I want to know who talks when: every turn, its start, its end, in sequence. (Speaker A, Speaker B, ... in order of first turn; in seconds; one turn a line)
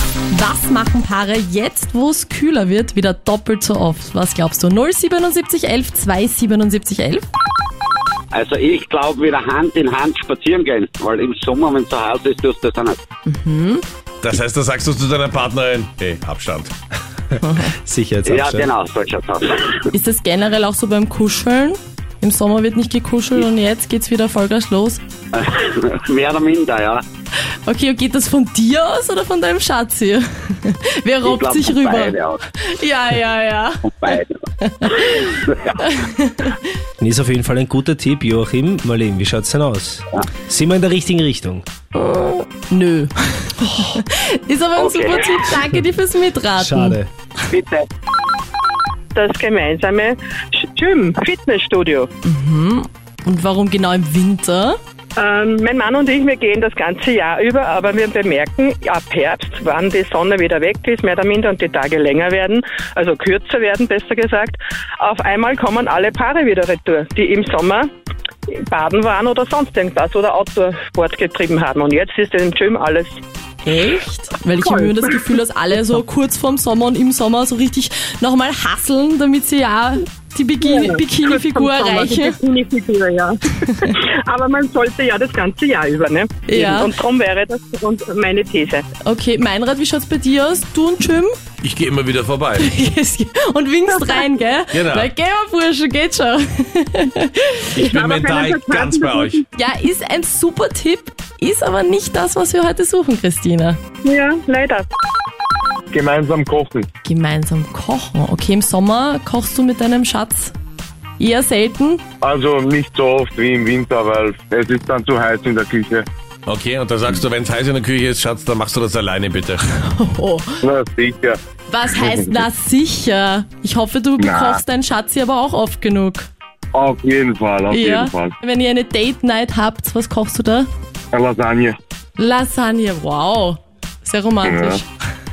Speaker A: 0.3-7.2
Speaker B: 8.3-13.0
Speaker A: 13.3-13.8
Speaker C: 14.2-16.7
Speaker A: 17.4-17.7
Speaker D: 17.6-18.7
Speaker B: 18.2-19.7
Speaker A: 19.9-25.0
Speaker B: 25.3-27.0
Speaker A: 27.7-36.7
Speaker B: 31.2-32.4
Speaker B: 33.9-34.4
Speaker B: 35.0-35.8
Speaker D: 37.0-41.6
Speaker A: 41.9-47.0
Speaker B: 44.8-45.4
Speaker D: 46.6-47.1
Speaker B: 47.5-47.9
Speaker E: 49.1-52.1
Speaker A: 52.2-54.8
Speaker E: 55.2-67.9
Speaker E: 68.7-73.1
Speaker A: 73.6-82.4
Speaker E: 80.7-88.8
Speaker A: 86.5-86.9
Speaker A: 89.0-91.3
Speaker C: 91.6-92.7
Speaker A: 92.6-97.7
Speaker C: 94.7-95.1
Speaker C: 97.8-99.4
Speaker E: 97.9-99.1
Speaker A: 99.5-103.8
Speaker E: 104.0-104.9
Speaker F: 105.9-106.9
Speaker A: 107.0-110.5
Speaker A: 111.2-112.0
Speaker F: 112.2-116.1
Speaker C: 116.5-119.6
Speaker A: 119.9-120.6
Speaker F: 120.6-121.4
Speaker A: 121.7-126.3
Speaker F: 121.9-122.5
Speaker F: 124.2-124.6
Speaker F: 126.7-128.3
Speaker A: 127.7-130.7
Speaker F: 131.1-131.8
Speaker A: 132.2-134.8
Speaker F: 134.4-134.8